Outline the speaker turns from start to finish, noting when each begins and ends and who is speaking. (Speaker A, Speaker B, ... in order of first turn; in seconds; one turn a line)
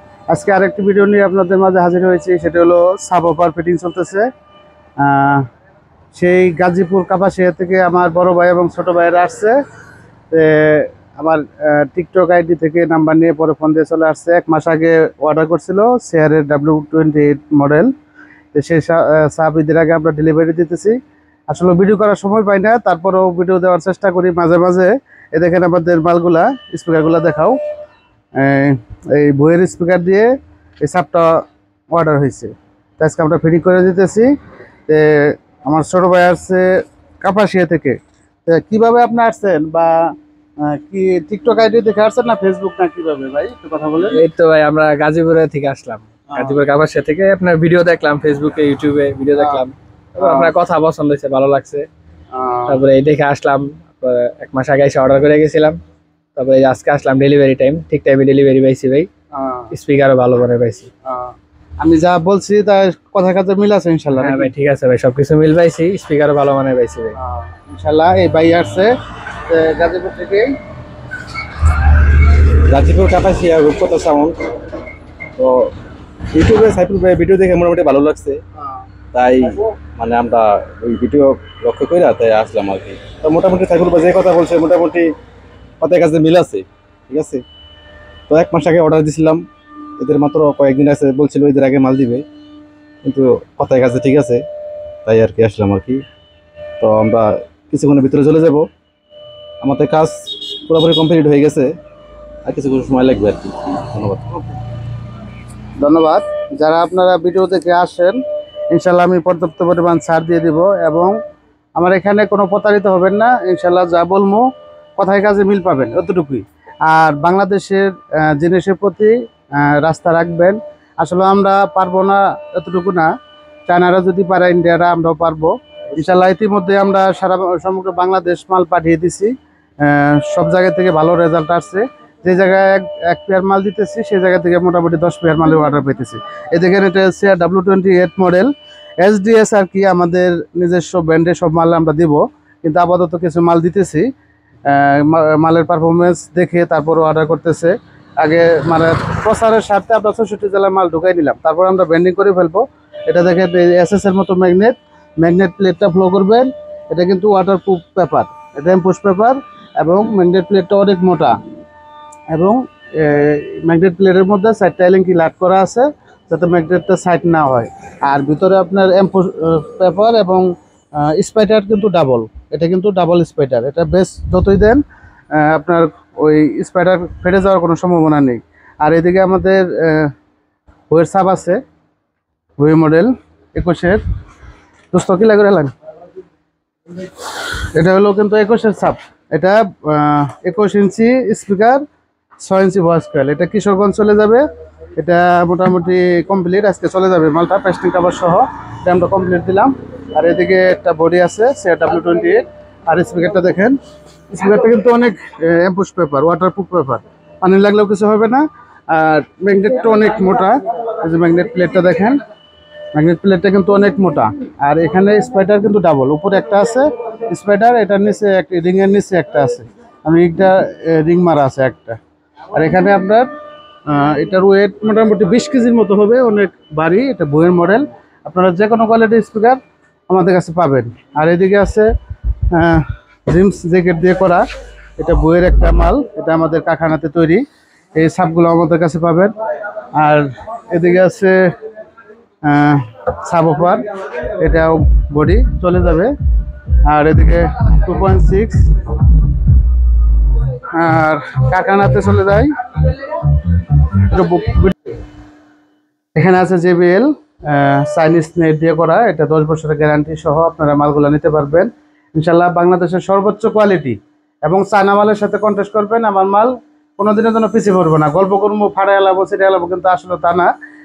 Speaker A: 0.3-4.3
Speaker A: 5.0-5.4
Speaker A: 6.1-9.6
Speaker A: 10.3-17.9
Speaker A: 18.5-20.9
Speaker A: 21.5-27.6
Speaker A: 28.4-30.3
Speaker A: 30.8-31.4
Speaker A: 31.9-34.3
Speaker A: 34.9-36.7
Speaker A: 37.2-39.9
Speaker A: 40.6-44.2
Speaker B: 44.1-51.9
Speaker A: 46.3-46.6
Speaker A: 49.3-49.6
Speaker A: 50.2-50.5
Speaker A: 52.3-52.8
Speaker B: 52.7-55.8
Speaker B: 56.4-59.1
Speaker A: 59.3-59.7
Speaker B: 59.7-60.9
Speaker A: 61.0-64.5
Speaker B: 64.2-67.2
Speaker A: 67.2-68.9
Speaker A: 69.5-70.5
Speaker C: 72.7-74.4
Speaker C: 75.4-75.7
Speaker C: 76.3-78.4
Speaker C: 79.1-85.1
Speaker C: 85.8-87.4
Speaker C: 88.3-89.4
Speaker C: 90.0-92.2
Speaker C: 93.0-94.4
Speaker C: 95.0-96.0
Speaker C: 96.8-98.7
Speaker C: 99.6-101.7
Speaker C: 102.5-104.3
Speaker A: 105.8-108.2
Speaker A: 108.7-111.2
Speaker A: 111.8-114.5
Speaker A: 115.0-123.1
Speaker A: 123.7-144.1
Speaker A: 144.7-161.3
Speaker A: 162.3-170.4
Speaker A: 171.0-174.8
Speaker A: 175.3-180.1
Speaker A: 180.9-181.6
Speaker A: 182.6-184.0
Speaker A: 184.9-185.7
Speaker A: 187.7-191.8
Speaker A: 192.4-194.4
Speaker A: 195.0-203.8
Speaker A: 204.3-212.2
Speaker A: 212.9-222.0
Speaker A: 222.5-223.3
Speaker A: 223.9-231.9
Speaker A: 232.5-234.4
Speaker A: 235.0-237.4
Speaker A: 237.9-239.3
Speaker A: 239.9-241.4
Speaker A: 242.4-243.8
Speaker A: 244.4-246.1
Speaker A: 246.8-248.7
Speaker A: 250.7-253.2
Speaker A: 253.8-254.9
Speaker A: 256.1-270.5